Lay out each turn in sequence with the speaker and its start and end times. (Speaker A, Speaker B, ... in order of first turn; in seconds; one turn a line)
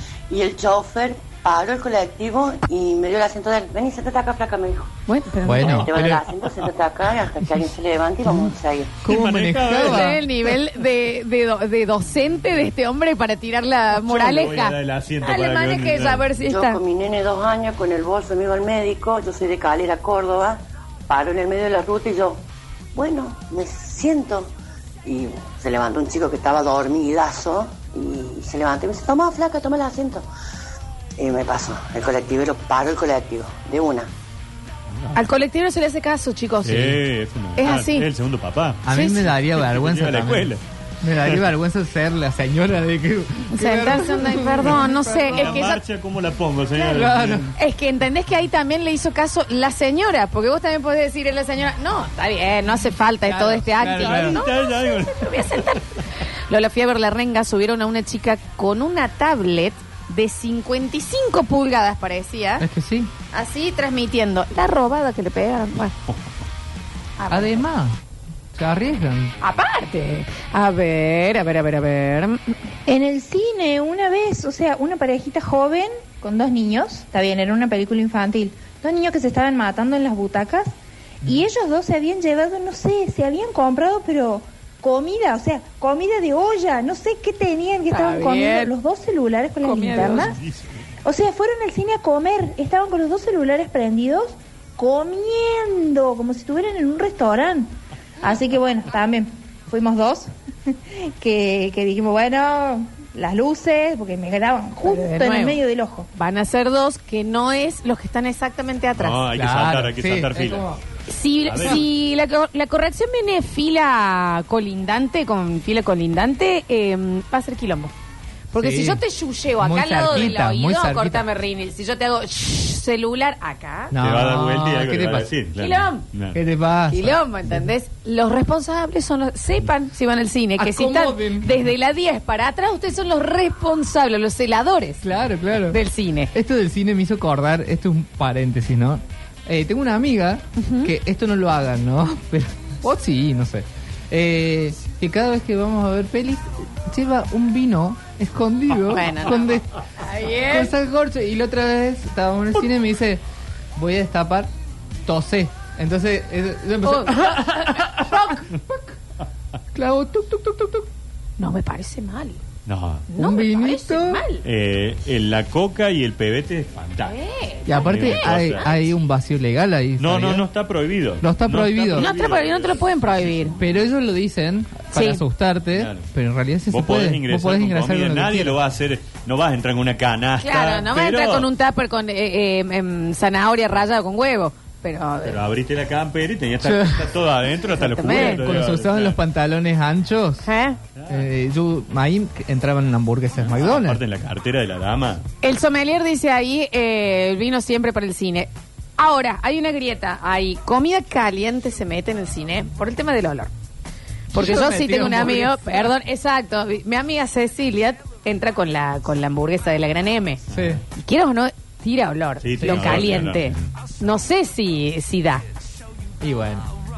Speaker A: 0.3-4.9
Speaker B: 5.1-5.8
Speaker C: 5.4-5.9
Speaker D: 5.5-6.7
Speaker A: 5.6-8.9
Speaker D: 9.0-10.5
Speaker C: 9.0-10.2
Speaker B: 9.8-16.8
Speaker D: 13.9-16.3
Speaker A: 16.4-22.4
Speaker A: 22.9-24.5
Speaker A: 25.0-30.3
Speaker A: 31.2-34.1
Speaker D: 34.9-35.2
Speaker B: 35.1-37.0
Speaker D: 36.6-38.8
Speaker B: 37.5-38.1
Speaker C: 38.8-45.7
Speaker B: 38.9-39.3
Speaker D: 39.4-40.6
Speaker B: 43.5-45.8
Speaker D: 44.6-47.5
Speaker C: 46.8-47.5
Speaker B: 47.5-62.6
Speaker C: 53.2-54.4
Speaker D: 53.8-55.7
Speaker C: 62.6-63.1
Speaker B: 63.3-65.9
Speaker B: 67.2-67.7
Speaker C: 67.3-68.0
Speaker C: 68.5-69.3
Speaker B: 69.4-72.5
Speaker E: 72.9-80.7
Speaker E: 81.2-90.4
Speaker B: 87.9-88.7
Speaker B: 89.6-90.3
Speaker D: 90.2-90.6
Speaker E: 91.0-97.7
Speaker E: 98.2-106.1
Speaker B: 104.8-105.6
Speaker B: 106.1-109.2
Speaker D: 109.0-110.7
Speaker C: 109.3-110.8
Speaker B: 111.1-117.9
Speaker D: 111.5-111.8
Speaker B: 118.5-123.9
Speaker C: 118.6-119.0
Speaker C: 119.6-121.2
Speaker C: 123.9-125.3
Speaker D: 124.0-126.4
Speaker B: 125.5-126.0
Speaker C: 126.3-127.7
Speaker B: 126.9-135.0
Speaker C: 130.6-131.5
Speaker C: 135.0-135.8
Speaker B: 135.7-136.3
Speaker C: 136.3-149.7
Speaker B: 140.6-140.9
Speaker B: 148.9-150.7
Speaker C: 150.5-153.2
Speaker C: 153.8-154.5
Speaker C: 155.1-157.4
Speaker B: 156.8-158.2
Speaker C: 157.9-158.3
Speaker C: 159.7-160.8
Speaker B: 161.4-162.4
Speaker D: 162.7-163.1
Speaker B: 163.1-164.4
Speaker C: 163.1-164.2
Speaker D: 164.4-167.2
Speaker B: 167.0-168.9
Speaker C: 167.7-170.5
Speaker D: 167.7-168.7
Speaker D: 170.0-173.8
Speaker C: 171.2-172.1
Speaker B: 171.9-173.6
Speaker C: 173.6-178.6
Speaker B: 174.9-175.2
Speaker D: 175.7-176.1
Speaker D: 176.7-181.5
Speaker B: 180.4-185.4
Speaker D: 185.2-189.2
Speaker C: 186.6-187.1
Speaker B: 187.8-188.4
Speaker C: 188.1-190.5
Speaker B: 190.4-190.8
Speaker D: 190.9-191.3
Speaker C: 191.1-194.0
Speaker D: 193.4-195.2
Speaker B: 195.4-203.5
Speaker B: 204.3-210.4
Speaker C: 204.3-205.6
Speaker D: 210.5-210.8
Speaker C: 210.5-210.8
Speaker B: 211.0-215.4
Speaker D: 212.4-213.6
Speaker C: 212.6-213.1
Speaker C: 216.2-216.7